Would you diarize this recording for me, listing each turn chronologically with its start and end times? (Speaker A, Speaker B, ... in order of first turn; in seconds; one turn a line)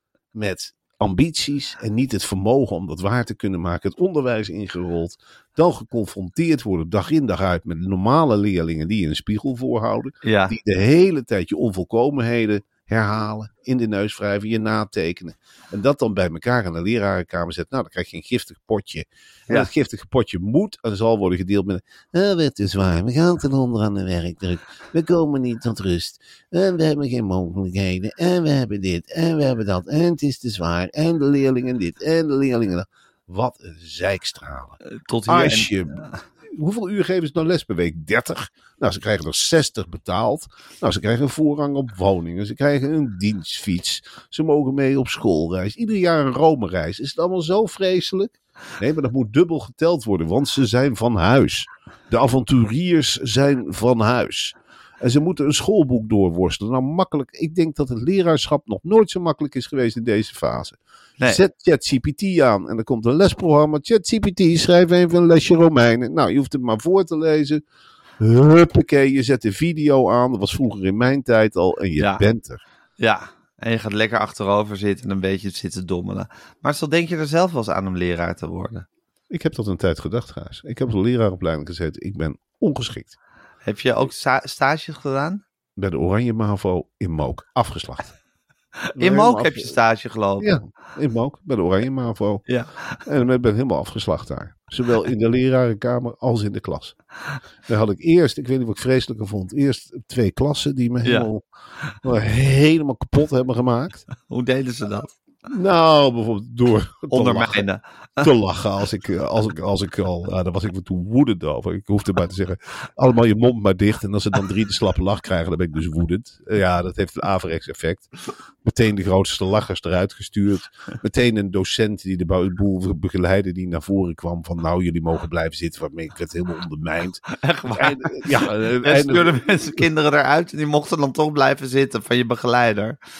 Speaker A: 0.3-67.6
Speaker B: 10.2-10.6
Speaker B: 35.0-36.2
Speaker A: 68.2-72.6
Speaker B: 72.0-72.2
Speaker B: 73.0-78.9
Speaker A: 79.3-83.1
Speaker B: 83.6-85.4
Speaker A: 85.8-88.1
Speaker B: 88.9-90.6
Speaker A: 89.0-89.7
Speaker A: 90.4-92.5
Speaker B: 92.5-93.0
Speaker A: 93.0-97.0
Speaker A: 97.7-101.4
Speaker A: 102.0-104.1
Speaker B: 104.3-105.2
Speaker A: 105.5-107.7
Speaker B: 107.1-108.3
Speaker A: 108.2-118.1
Speaker A: 118.6-129.8
Speaker B: 127.4-133.0